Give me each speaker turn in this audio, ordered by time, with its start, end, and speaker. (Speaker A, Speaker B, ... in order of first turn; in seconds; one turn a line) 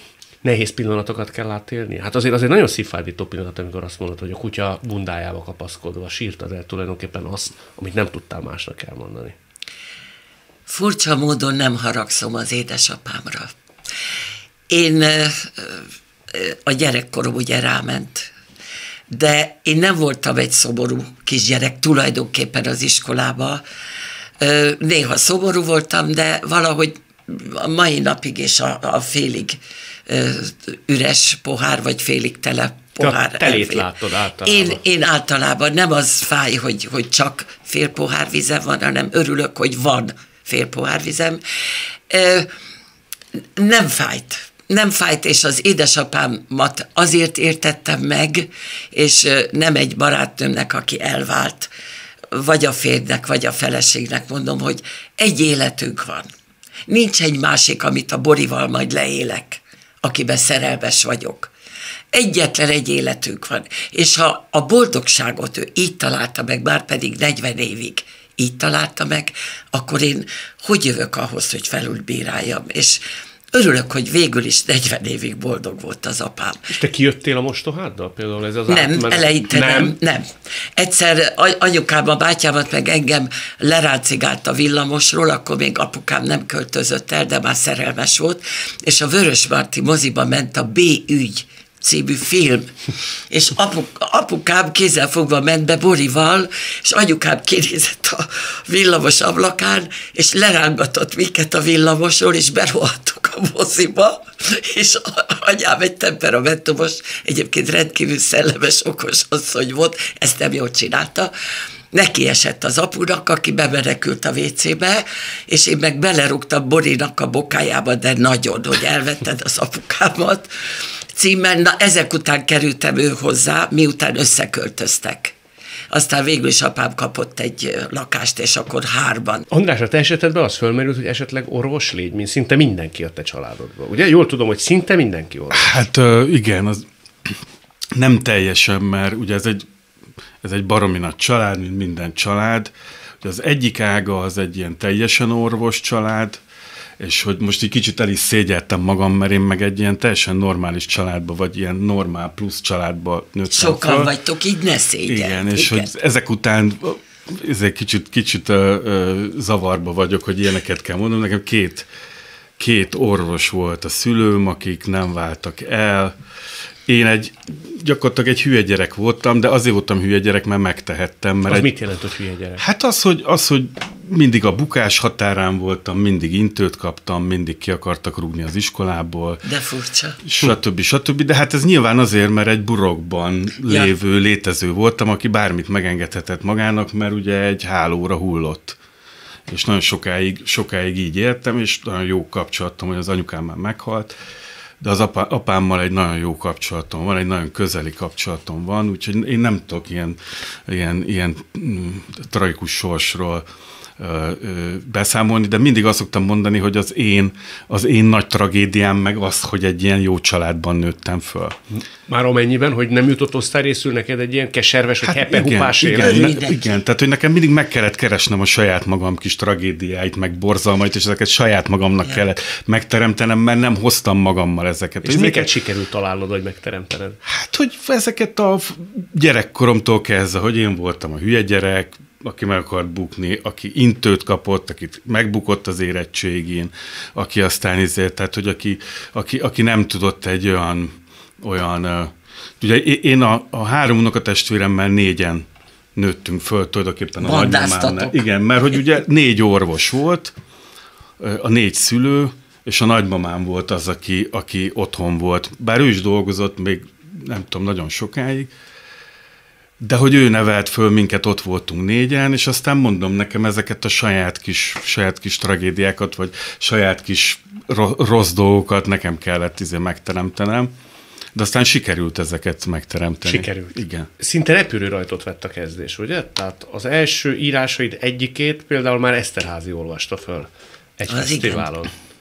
Speaker A: 0.4-9.3
Speaker B: 10.7-13.5
Speaker B: 14.7-18.3
Speaker B: 19.1-23.6
Speaker B: 24.4-33.9
Speaker A: 33.0-34.8
Speaker B: 34.4-41.4
Speaker B: 42.1-42.5
Speaker B: 43.6-51.7
Speaker B: 52.3-56.3
Speaker B: 56.9-61.5
Speaker B: 62.1-76.7
Speaker A: 76.7-79.9
Speaker B: 78.7-92.7
Speaker B: 93.3-111.3
Speaker B: 111.9-120.5
Speaker B: 121.1-125.3
Speaker B: 125.9-129.4
Speaker A: 129.5-135.7
Speaker C: 135.5-137.4
Speaker C: 137.9-139.7
Speaker C: 140.4-146.4
Speaker C: 147.0-154.1
Speaker B: 153.5-155.9
Speaker C: 155.1-161.9
Speaker C: 162.6-166.2
Speaker C: 166.9-171.7
Speaker A: 171.5-172.6
Speaker C: 172.6-179.4
Speaker B: 179.4-180.2
Speaker C: 180.2-188.8
Speaker B: 183.7-183.9
Speaker C: 189.5-194.1
Speaker C: 194.8-203.4
Speaker C: 204.0-211.6
Speaker A: 212.1-216.3
Speaker C: 215.0-225.5
Speaker B: 216.0-216.8
Speaker A: 225.0-227.2
Speaker C: 227.2-250.3
Speaker B: 247.2-248.3
Speaker C: 251.2-258.5
Speaker C: 259.8-270.7
Speaker C: 271.3-274.1
Speaker A: 273.2-281.9
Speaker B: 281.1-281.7